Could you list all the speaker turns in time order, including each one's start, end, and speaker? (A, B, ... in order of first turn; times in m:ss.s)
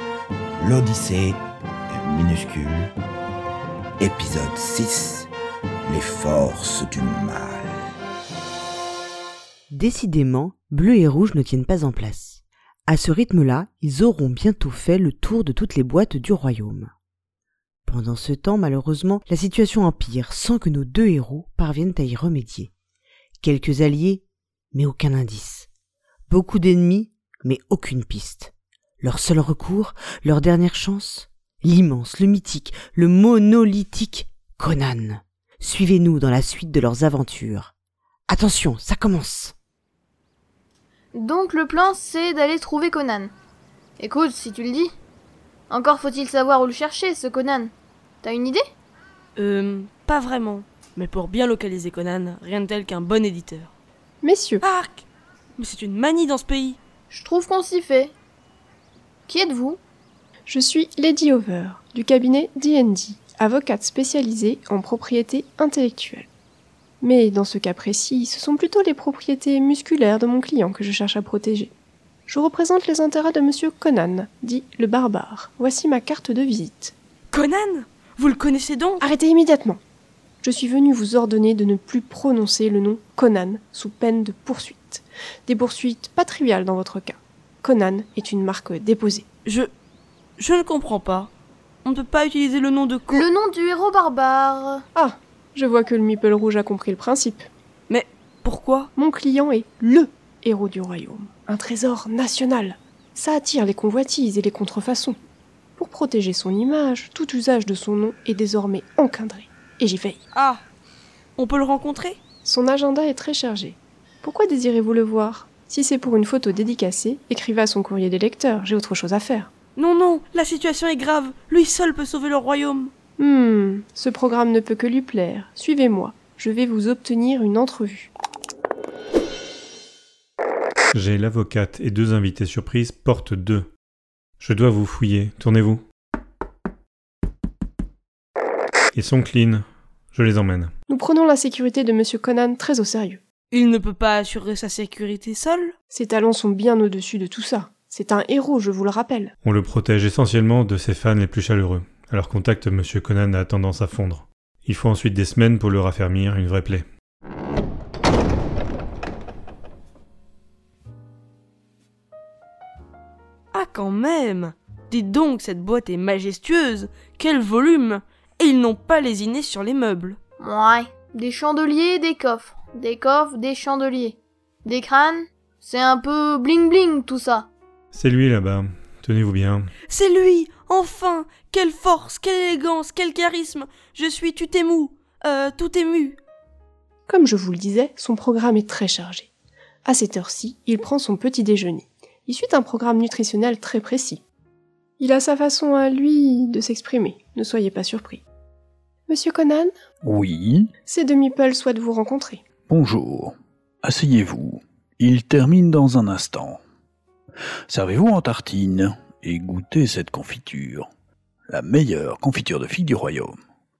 0:00.6-0:02.9 A
0:04.0-0:05.3 A
0:05.9-0:07.7 A
0:09.7-0:16.9 B
0:17.9-0:22.7 B
0:23.4-0:25.7 B
0:26.3-0:37.7 B
0:38.3-0:39.5 B
0:41.1-0:43.3 C
0:44.0-0:44.9 C
0:45.7-0:48.6 C
0:49.4-0:53.7 D
0:54.2-0:54.6 E
0:54.6-0:55.0 D
0:55.6-0:56.8 D
0:57.1-0:58.1 C
0:59.3-0:59.8 C
1:00.5-1:06.3 E
1:07.0-1:11.7 E
1:12.3-1:16.9 E
1:17.3-1:19.0 D
1:19.0-1:19.8 E
1:20.4-1:29.2 E
1:29.4-1:29.7 D
1:30.4-1:31.3 D
1:31.8-1:33.2 D
1:33.1-1:34.8 C
1:34.9-1:37.5 E
1:37.9-1:38.9 D
1:38.9-1:45.2 E
1:45.8-1:50.2 E
1:50.3-1:50.6 D
1:51.4-1:52.2 D
1:52.4-1:59.5 E
1:59.8-2:02.9 D
2:03.2-2:08.1 E
2:10.9-2:13.7 F
2:14.4-2:15.8 F
2:18.9-2:20.7 F
2:20.9-2:23.2 E
2:23.5-2:25.7 D
2:25.9-2:29.3 E
2:29.4-2:36.8 F
2:43.5-2:50.2 D
2:50.4-2:57.5 C
2:57.9-2:59.7 F
2:59.9-3:06.2 D
3:07.1-3:09.3 E
3:09.8-3:14.2 E
3:15.0-3:18.2 E
3:19.1-3:19.7 E
3:20.0-3:20.7 G
3:20.8-3:22.4 E
3:22.7-3:26.6 G
3:27.7-3:30.9 G
3:31.5-3:33.4 G